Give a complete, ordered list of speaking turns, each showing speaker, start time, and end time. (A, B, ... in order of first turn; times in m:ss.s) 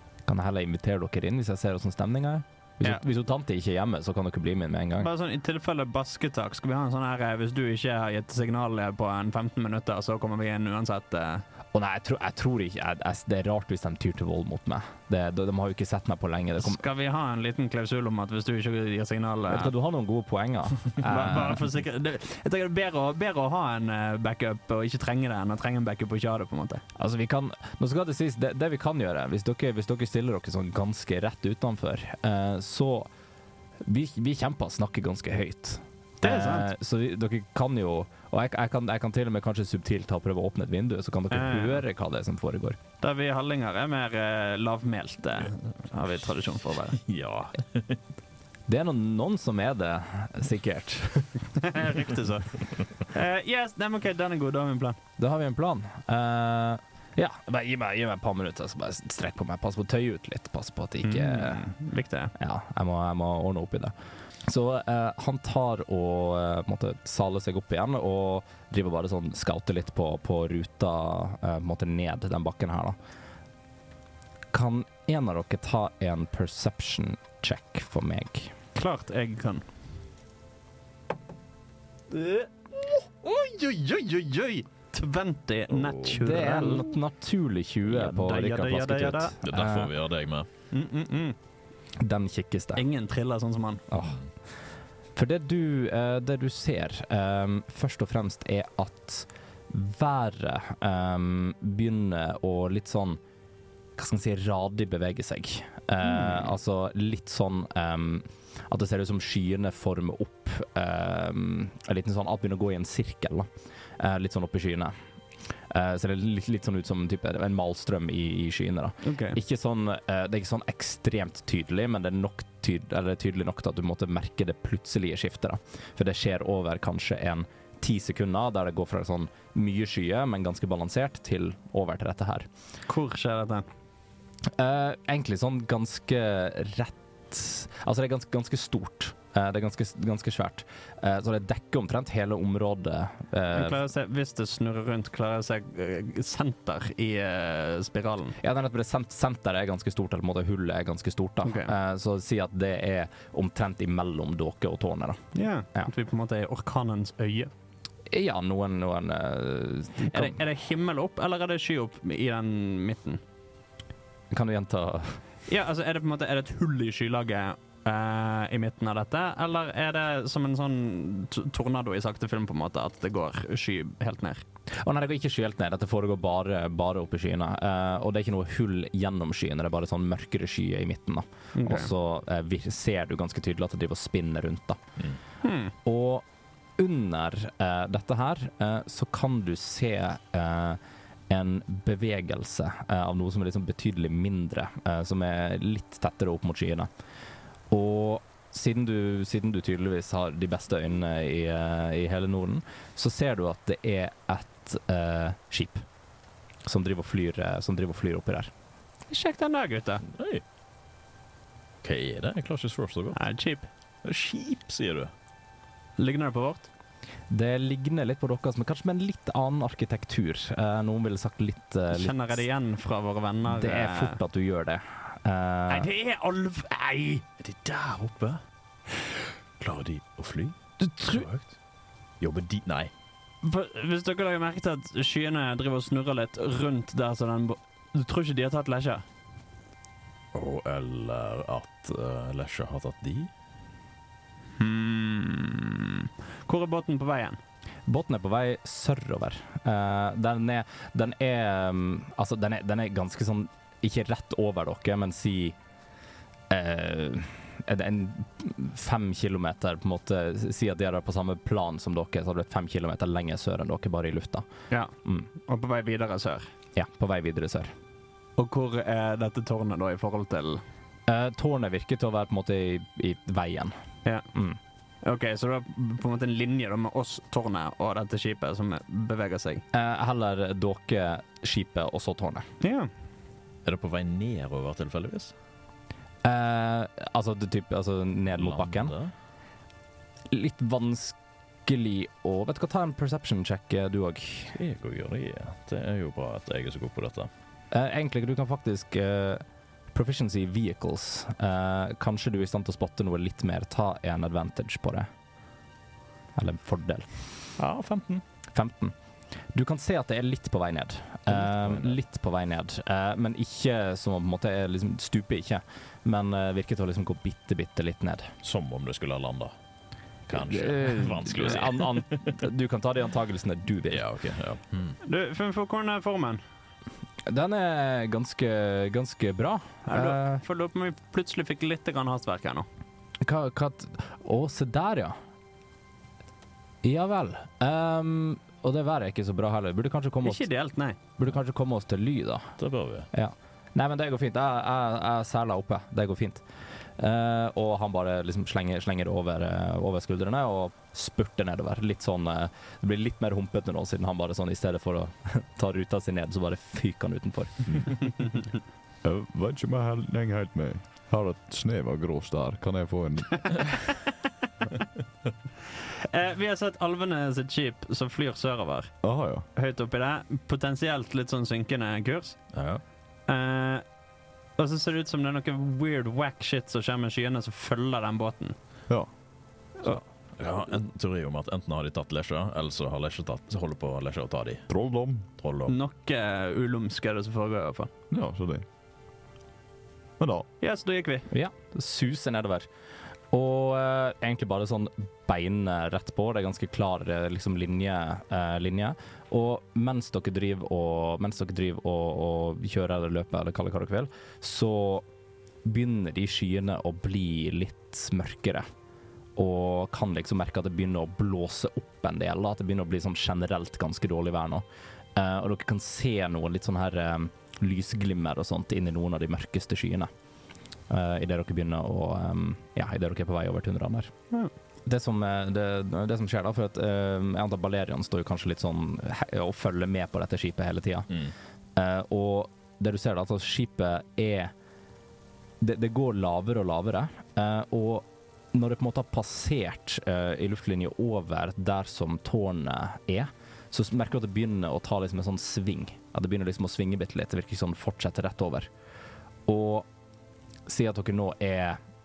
0:00.2-0:05.1 A
0:05.0-0:11.4 B
0:11.7-0:16.8 A
0:16.6-0:19.7 B
0:19.5-0:21.6 A
0:21.0-0:26.8 B
0:27.0-0:33.1 A
0:33.8-0:42.8 A
0:36.2-0:36.7 B
0:41.3-0:41.8 B
0:43.0-0:47.0 B
0:47.0-0:48.0 C
0:48.7-0:51.8 A
0:51.7-0:55.0 B
0:55.2-1:01.7 A
1:01.0-1:02.3 B
1:02.4-1:03.9 A
1:04.4-1:13.0 A
1:14.5-1:18.5 A
1:18.8-1:19.6 B
1:22.1-1:26.9 B
1:25.7-1:26.2 C
1:26.1-1:29.9 A
1:27.9-1:29.4 B
1:29.4-1:30.5 C
1:30.7-1:31.4 B
1:32.0-1:32.8 A
1:32.8-1:33.8 B
1:33.9-1:34.2 A
1:34.0-1:34.3 C
1:35.1-1:43.2 A
1:44.0-1:53.5 A
1:46.0-1:46.5 B
1:54.0-1:55.0 A
1:55.7-2:12.5 A
1:59.0-1:59.4 B
2:12.9-2:13.6 B
2:14.6-2:23.8 A
2:23.5-2:28.4 B
2:28.4-2:35.9 A
2:31.4-2:31.7 B
2:35.3-2:37.5 B
2:38.1-2:40.4 A
2:40.0-2:43.2 B
2:44.3-2:45.2 A
2:45.5-2:54.4 B
2:54.8-3:04.8 A
3:01.6-3:01.9 B
3:05.4-3:05.7 B
3:05.8-3:06.2 A
3:06.8-3:16.9 A
3:17.7-3:25.8 A
3:26.6-3:28.5 A
3:29.1-3:30.0 B
3:30.1-3:30.4 C
3:31.8-3:33.2 C
3:33.2-3:33.7 B
3:34.0-3:35.1 C
3:36.0-3:36.7 B
3:37.3-3:42.4 A
3:41.9-3:44.2 B
3:43.5-3:45.9 A
3:45.7-3:47.2 B
3:47.4-3:48.4 C
3:49.6-3:51.5 C
3:50.8-3:51.2 B
3:52.2-3:52.9 C
3:53.4-3:59.0 B
4:00.3-4:03.3 C
4:04.6-4:07.4 B
4:07.9-4:15.6 A
4:16.5-4:24.5 A
4:24.7-4:26.5 B
4:26.8-4:27.7 A
4:28.4-4:30.6 B
4:31.1-4:33.8 A
4:34.3-4:34.6 A
4:35.0-4:39.6 B
4:39.7-4:42.5 A
4:42.6-4:42.9 B
4:43.6-4:45.3 C
4:46.2-4:48.9 A
4:48.4-4:49.1 C
4:50.3-4:54.5 A
4:54.5-4:57.3 C
4:57.7-5:05.1 A
5:06.3-5:07.1 A
5:07.6-5:08.2 C
5:08.5-5:09.0 A
5:09.5-5:18.3 A
5:11.3-5:11.9 C
5:18.4-5:19.5 C
5:20.3-5:22.0 C
5:20.3-5:24.0 A
5:23.9-5:25.0 C
5:25.0-5:26.4 B
5:27.2-5:30.4 A
5:29.9-5:32.7 B
5:33.2-5:35.2 A
5:36.8-5:40.5 A
5:40.2-5:41.0 B
5:41.2-5:42.6 A
5:42.6-5:43.1 C
5:43.1-5:46.4 A
5:47.0-5:57.9 A
5:59.0-6:03.8 D
6:06.1-6:08.9 B
6:09.0-6:09.4 D
6:09.5-6:12.4 B
6:12.5-6:12.8 C
6:13.3-6:13.8 B
6:14.6-6:18.6 B
6:19.8-6:24.7 C
6:24.7-6:25.2 D
6:25.4-6:25.8 C
6:25.7-6:27.9 B
6:28.1-6:28.6 D
6:30.2-6:30.5 D
6:30.6-6:31.3 B
6:31.3-6:32.7 A
6:33.3-6:45.0 A
6:45.6-6:48.7 A
6:49.4-7:00.1 A
7:00.9-7:04.1 A
7:04.8-7:11.2 A
7:11.8-7:14.5 A
7:15.6-7:28.7 A
7:29.5-7:29.9 A
7:30.7-7:31.8 A